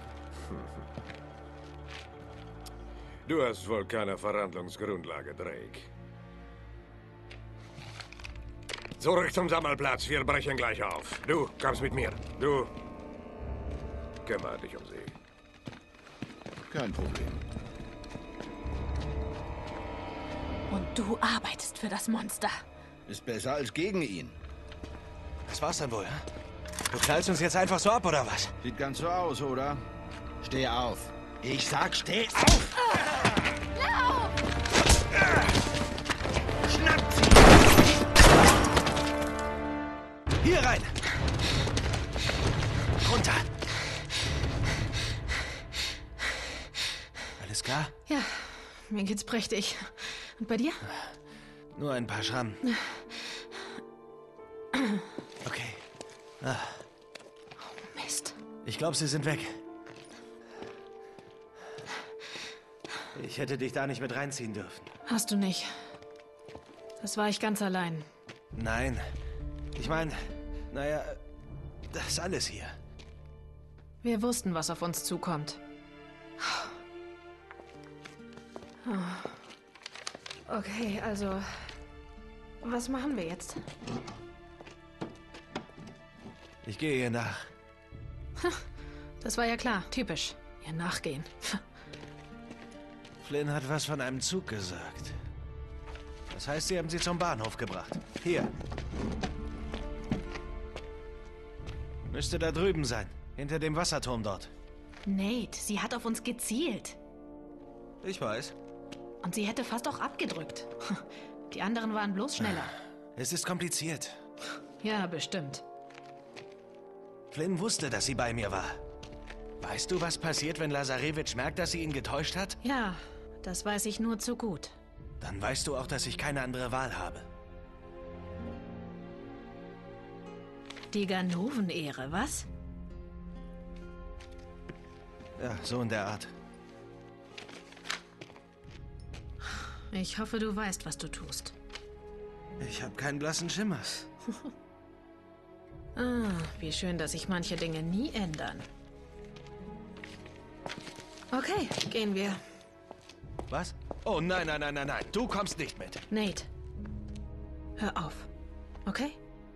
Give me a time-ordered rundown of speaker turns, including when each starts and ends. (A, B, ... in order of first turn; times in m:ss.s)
0:00.4-0:00.7 A
0:03.2-0:05.9 A
0:09.0-0:12.7 A
0:14.2-0:15.1 A
0:16.7-0:17.4 B
0:20.7-0:22.6 C
0:23.1-0:24.4 B
0:25.5-0:26.2 D
0:26.9-0:28.5 D
0:28.6-0:29.8 B
0:30.4-0:32.7 B
0:33.8-0:34.3 C
0:36.6-0:37.6 B
0:40.4-0:40.9 D
0:43.0-0:43.5 D
0:47.4-0:47.9 D
0:48.1-0:50.9 C
0:51.7-0:52.6 D
0:52.6-0:53.4 C
0:54.7-0:55.0 C
0:55.4-0:55.8 D
0:56.4-0:56.8 D
0:57.6-0:58.4 C
0:58.6-0:59.6 D
1:03.1-1:04.9 D
1:05.1-1:05.9 C
1:07.0-1:08.1 C
1:08.5-1:09.0 D
1:09.8-1:11.2 D
1:11.9-1:12.8 D
1:14.0-1:15.6 C
1:16.4-1:16.8 C
1:18.8-1:19.4 C
1:20.5-1:21.8 C
1:22.6-1:23.6 C
1:26.6-1:27.5 D
1:28.4-1:28.6 C
1:29.2-1:31.6 C
1:33.2-1:35.2 D
1:36.3-1:38.5 D
1:42.1-1:44.5 D
1:45.0-1:47.0 C
1:48.0-1:48.5 D
1:49.2-1:52.8 C
1:52.4-1:54.2 D
1:54.8-1:55.6 C
1:57.3-1:58.8 D
1:59.6-2:02.6 D
2:02.6-2:04.8 C
2:05.2-2:07.3 D
2:10.9-2:12.5 C
2:15.4-2:16.3 D
2:19.5-2:21.5 C
2:22.6-2:24.0 D
2:26.0-2:28.7 C
2:31.3-2:32.4 C
2:33.5-2:36.0 D
2:36.1-2:36.5 C
2:37.8-2:38.3 C
2:38.8-2:39.2 C